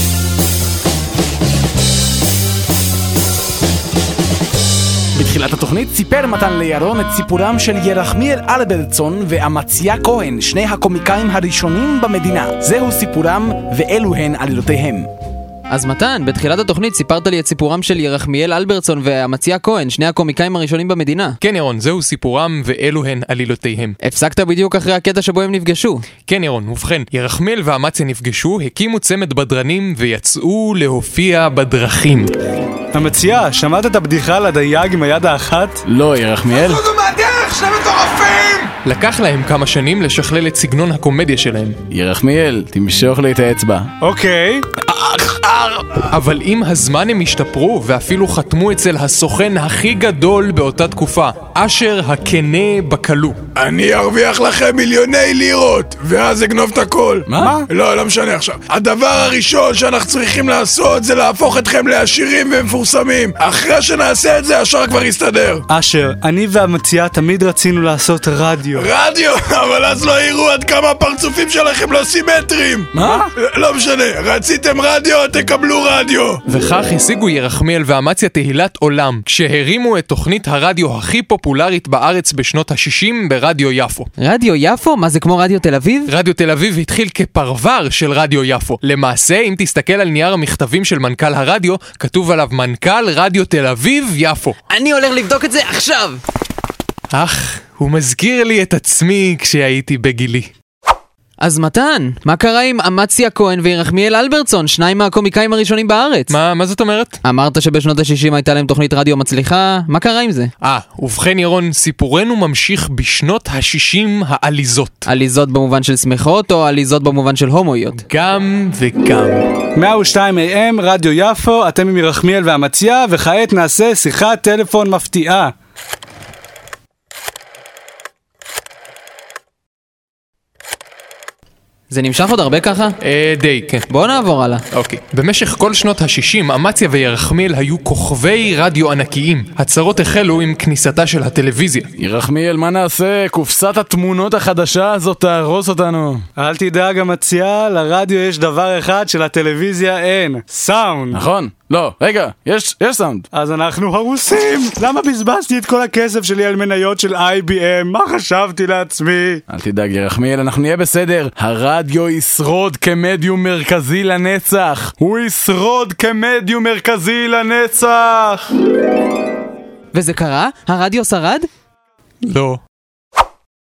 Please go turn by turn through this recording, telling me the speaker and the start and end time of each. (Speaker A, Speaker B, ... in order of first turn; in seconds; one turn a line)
Speaker A: 5.1-15.1
Speaker B: 15.7-21.4
Speaker C: 21.4-24.0
Speaker B: 24.0-26.1
Speaker C: 26.2-32.3
Speaker D: 32.9-35.8
Speaker A: 35.8-36.8
Speaker E: 36.7-38.7
Speaker D: 37.0-37.9
Speaker C: 38.8-41.8
Speaker A: 41.9-43.9
Speaker D: 44.0-44.6
Speaker A: 44.9-45.9
Speaker C: 46.0-53.4
Speaker E: 53.5-65.6
Speaker A: 57.3-57.5
Speaker D: 57.4-57.7
Speaker D: 65.7-68.9
Speaker E: 68.7-76.4
Speaker A: 72.9-73.2
Speaker C: 76.5-84.1
Speaker B: 84.2-86.1
Speaker C: 86.1-94.6
Speaker B: 94.7-96.2
Speaker C: 97.1-100.5
Speaker B: 101.4-106.3
Speaker C: 106.3-107.2
Speaker B: 107.2-110.5
Speaker C: 110.6-115.0
Speaker B: 115.1-118.0
Speaker C: 118.1-119.5
Speaker D: 119.8-125.5
Speaker B: 131.9-133.0
Speaker C: 133.0-133.9
Speaker B: 133.9-134.6
Speaker C: 134.7-141.9
Speaker A: 142.0-146.2
Speaker D: 146.4-151.2
Speaker A: 151.1-153.3
Speaker D: 153.3-159.4
Speaker A: 159.5-168.5
Speaker B: 169.9-171.5
Speaker C: 172.2-172.6